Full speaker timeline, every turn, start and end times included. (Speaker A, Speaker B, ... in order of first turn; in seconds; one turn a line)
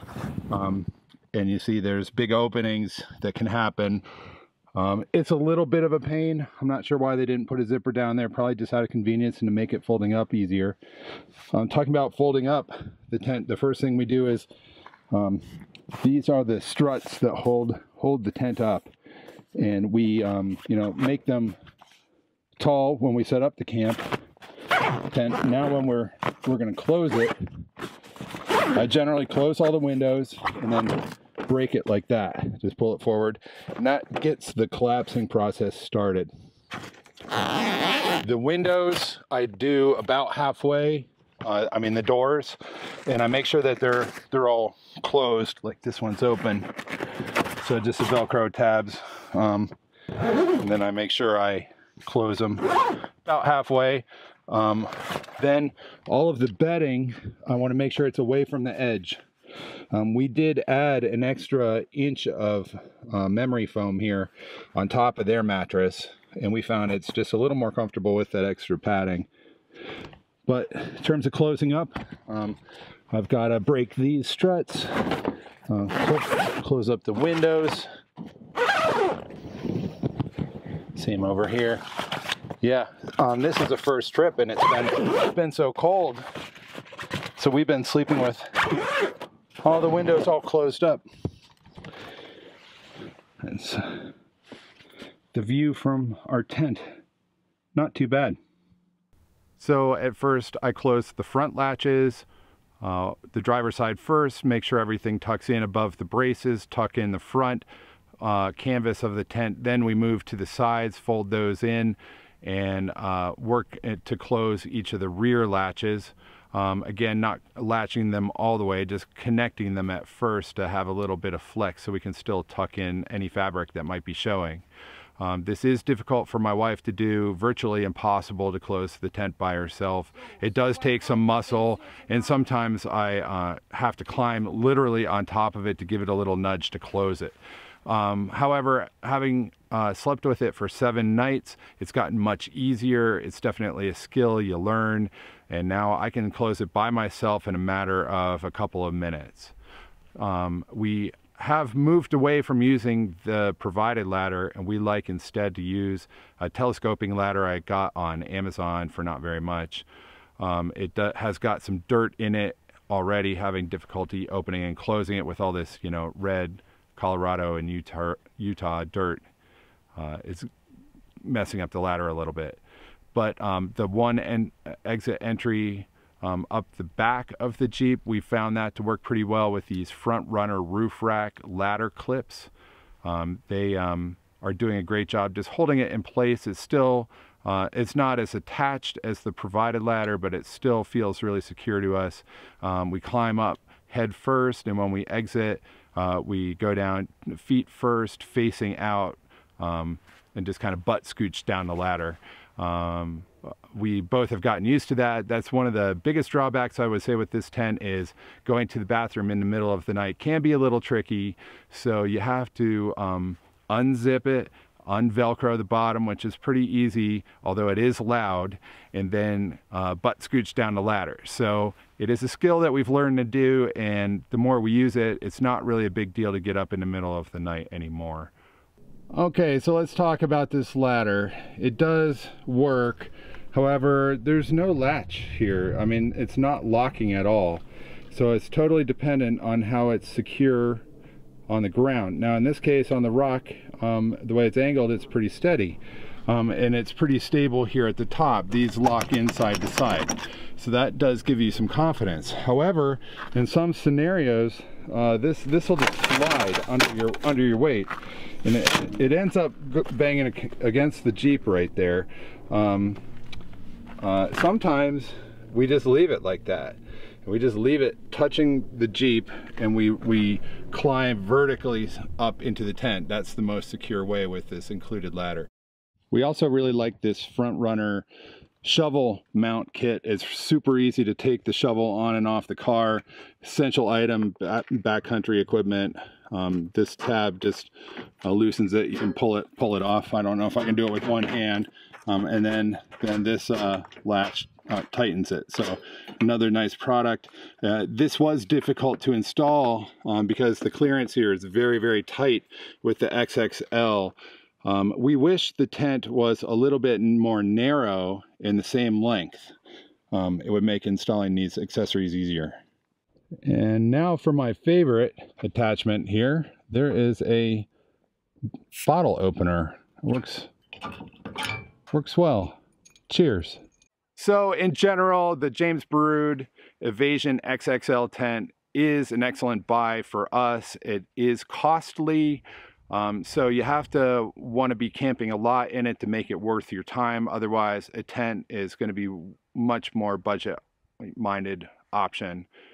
Speaker A: 0.5-4.0
Speaker A: 4.8-10.8
Speaker A: 11.5-14.5
Speaker A: 15.1-15.4
Speaker A: 15.9-18.9
Speaker A: 19.6-21.6
Speaker A: 22.6-24.1
Speaker A: 25.0-27.4
Speaker A: 28.7-36.3
Speaker A: 38.1-49.7
Speaker A: 50.5-59.2
Speaker A: 59.9-69.3
Speaker A: 70.5-72.6
Speaker A: 73.1-77.9
Speaker A: 80.9-81.8
Speaker A: 82.6-86.3
Speaker A: 87.4-88.8
Speaker A: 89.6-91.0
Speaker A: 93.4-94.1
Speaker A: 95.3-96.9
Speaker A: 97.8-98.4
Speaker A: 99.6-102.3
Speaker A: 102.8-107.7
Speaker A: 108.2-124.7
Speaker A: 125.2-137.4
Speaker A: 137.9-149.5
Speaker A: 150.2-159.9
Speaker A: 160.4-169.2
Speaker A: 170.0-170.5
Speaker A: 171.2-172.6
Speaker A: 173.1-182.5
Speaker A: 183.0-228.3
Speaker A: 229.1-240.8
Speaker A: 241.5-263.0
Speaker A: 264.0-275.5
Speaker A: 276.1-278.1
Speaker A: 278.6-309.5
Speaker A: 310.1-312.6
Speaker A: 313.4-317.7
Speaker A: 318.8-320.5
Speaker A: 321.9-323.6
Speaker A: 324.2-342.5